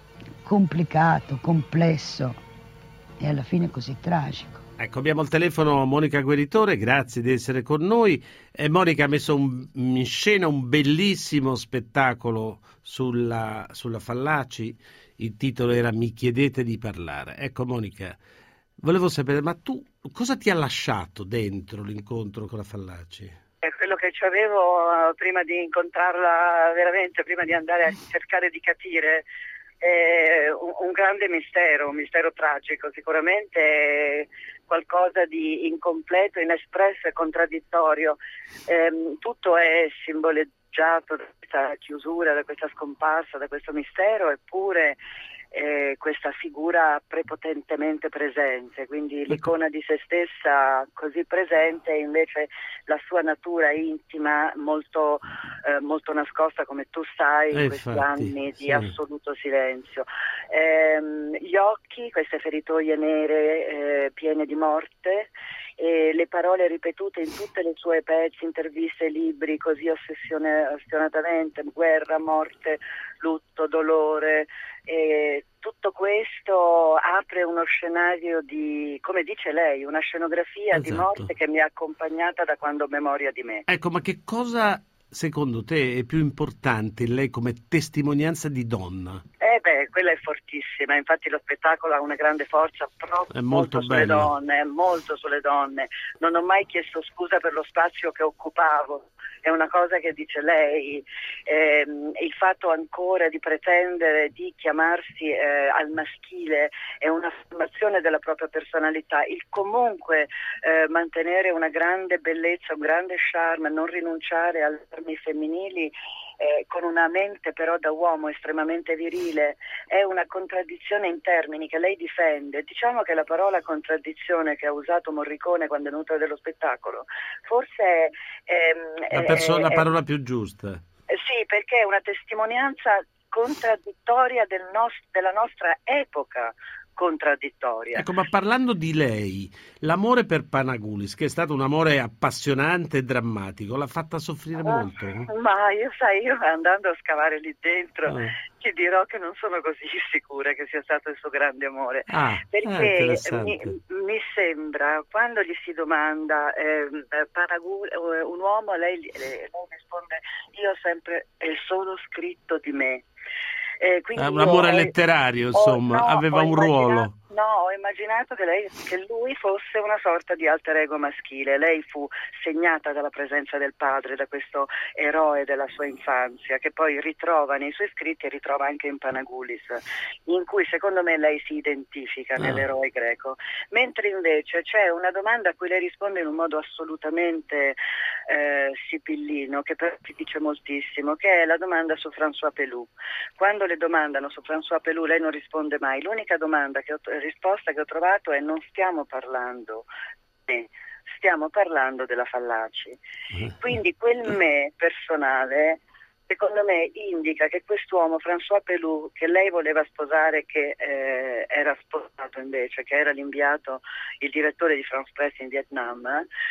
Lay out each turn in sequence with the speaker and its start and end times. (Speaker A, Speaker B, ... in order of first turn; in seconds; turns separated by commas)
Speaker A: 0.5-2.4, Speaker A: 3.2-4.6, Speaker B: 4.8-18.2, Speaker B: 18.8-23.4, Speaker C: 23.6-29.2, Speaker C: 29.8-45.0, Speaker C: 45.5-83.6, Speaker B: 57.5-58.9, Speaker B: 80.7-81.3, Speaker B: 83.7-89.2, Speaker C: 89.4-129.8, Speaker B: 93.3-94.3, Speaker B: 129.1-130.8, Speaker C: 131.1-138.1, Speaker B: 137.9-145.3, Speaker C: 144.6-163.0, Speaker B: 148.1-148.3, Speaker B: 152.1-153.7, Speaker C: 163.8-164.9, Speaker B: 164.2-167.1, Speaker C: 165.5-187.8, Speaker B: 182.4-182.7, Speaker C: 188.3-199.9, Speaker C: 200.5-203.0, Speaker C: 203.6-216.3